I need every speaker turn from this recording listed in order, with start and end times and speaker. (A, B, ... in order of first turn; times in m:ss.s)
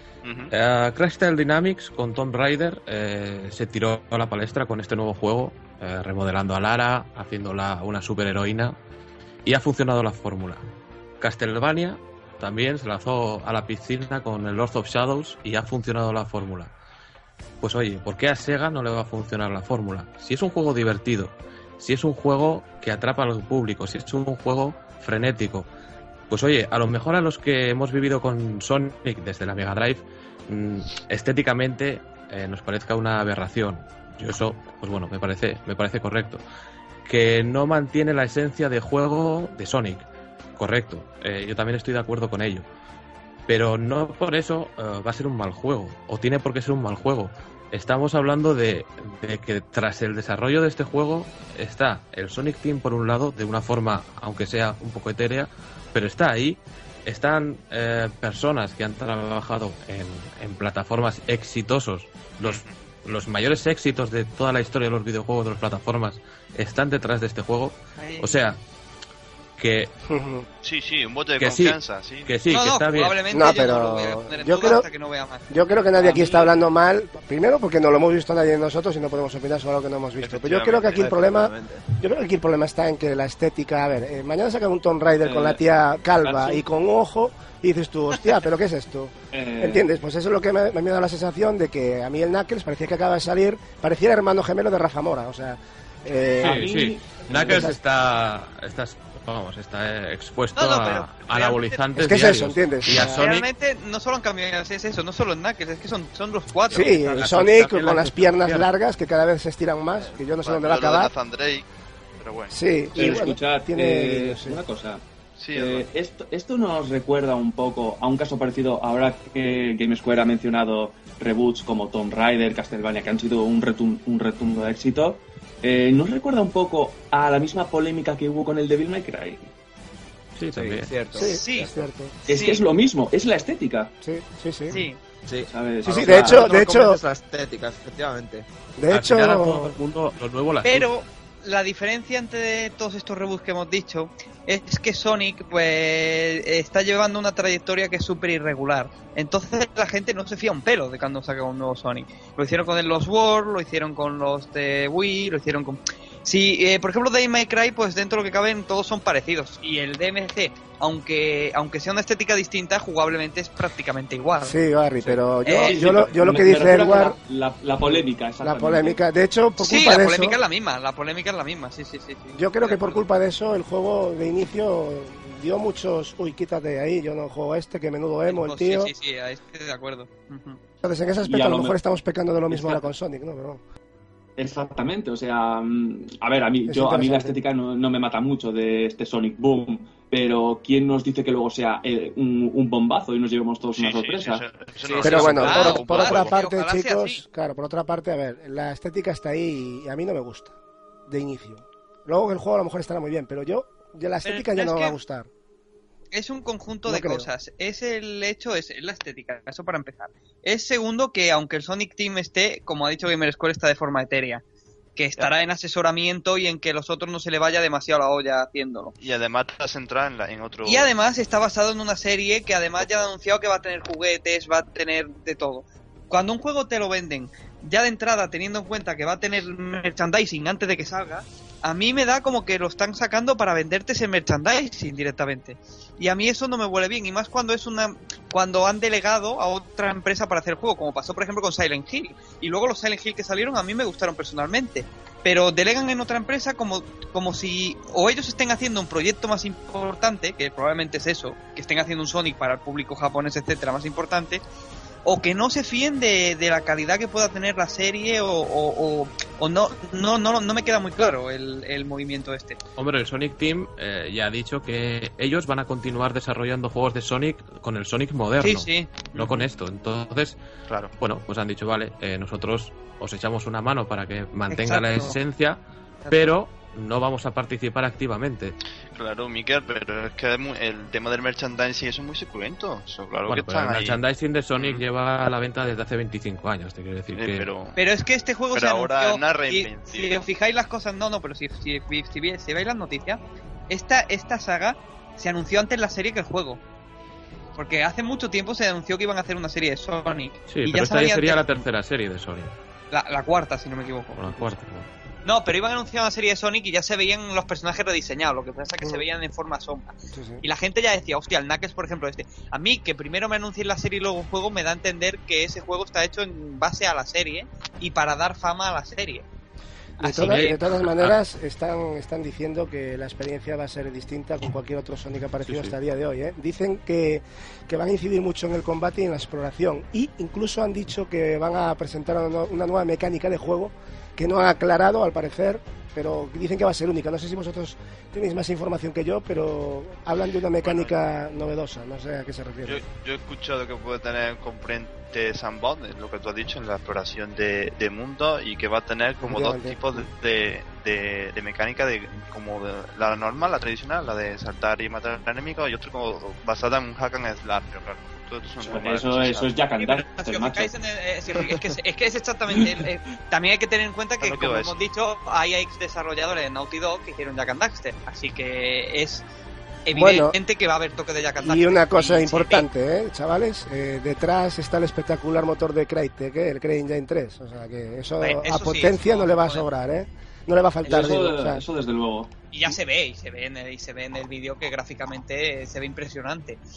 0:00.2-0:00.5 A
0:00.5-0:08.8 B
0:09.4-0:10.6 B
0:11.2-0:16.7 B
0:17.6-0:25.7 B
0:26.3-0:36.4 B
0:37.0-0:40.0 B
0:40.6-0:42.6 B
0:43.5-1:08.6 B
1:02.4-1:02.7 A
1:08.0-1:08.4 C
1:09.6-1:09.9 B
1:10.1-1:10.5 D
1:10.6-1:12.3 A
1:11.4-1:13.1 B
1:12.5-1:15.5 C
1:13.3-1:14.9 D
1:15.5-1:36.7 D
1:16.0-1:16.5 E
1:20.2-1:21.1 A
1:20.8-1:21.8 F
1:25.2-1:25.6 E
1:26.2-1:26.6 E
1:29.3-1:29.8 E
1:36.4-1:37.7 E
1:36.4-1:43.4 B
1:37.3-1:37.8 D
1:40.6-1:41.9 C
1:42.0-1:43.2 D
1:43.0-1:47.3 C
1:46.7-1:51.1 D
1:47.1-1:48.7 B
1:50.4-1:51.6 A
1:52.2-1:53.2 A
1:52.5-1:54.6 D
1:52.9-1:55.0 E
1:55.4-1:55.8 A
1:55.5-2:09.5 E
2:10.4-2:10.9 B
2:10.5-2:11.9 F
2:11.1-2:12.2 D
2:11.2-2:11.7 C
2:12.2-2:13.9 E
2:14.0-2:14.8 D
2:14.7-2:15.0 C
2:15.2-2:18.4 F
2:15.5-2:16.4 E
2:15.8-2:17.0 D
2:18.8-2:19.8 D
2:18.9-2:20.9 B
2:20.6-2:44.6 C
2:44.4-2:47.2 D
2:45.4-2:46.1 C
2:45.6-2:49.0 E
2:47.8-2:50.4 D
2:49.6-2:53.0 C
2:52.3-2:58.9 D
2:58.3-3:00.6 C
3:00.8-3:03.6 D
3:01.2-3:01.7 E
3:02.5-3:02.8 E
3:04.4-3:15.4 E
3:06.7-3:07.4 D
3:13.8-3:16.4 A
3:14.9-3:17.2 C
3:15.0-3:20.5 D
3:21.1-3:25.3 D
3:24.2-3:24.9 C
3:26.1-3:34.4 C
3:26.9-3:27.3 D
3:35.0-3:38.9 C
3:39.0-3:40.9 A
3:40.6-4:14.4 C
3:42.8-3:43.1 A
4:15.0-4:22.6 C
4:22.8-4:30.4 B
4:28.4-4:29.3 C
4:31.0-4:35.6 B
4:34.5-4:35.1 C
4:36.0-4:36.3 C
4:36.1-4:38.5 B
4:38.9-4:44.0 A
4:43.3-4:47.5 B
4:44.6-4:44.8 A
4:47.1-4:47.8 A
4:47.8-4:56.6 C
4:48.5-4:50.3 A
4:57.6-5:01.6 C
5:00.5-5:02.5 B
5:02.9-5:04.6 C
5:04.1-5:04.9 B
5:05.2-5:19.2 C
5:10.1-5:10.4 D
5:20.0-5:20.7 C
5:20.0-5:42.8 D
5:20.2-5:21.2 B
5:25.4-5:25.8 B
5:40.6-5:41.1 A
5:42.6-5:59.5 A
5:49.2-5:50.0 D
5:58.6-6:00.7 E
5:59.8-6:09.2 C
6:02.5-6:02.8 E
6:04.2-6:04.8 A
6:09.8-6:12.7 C
6:09.9-6:10.4 D
6:11.4-6:21.6 D
6:18.2-6:19.6 C
6:20.8-6:22.3 E
6:22.5-6:26.6 C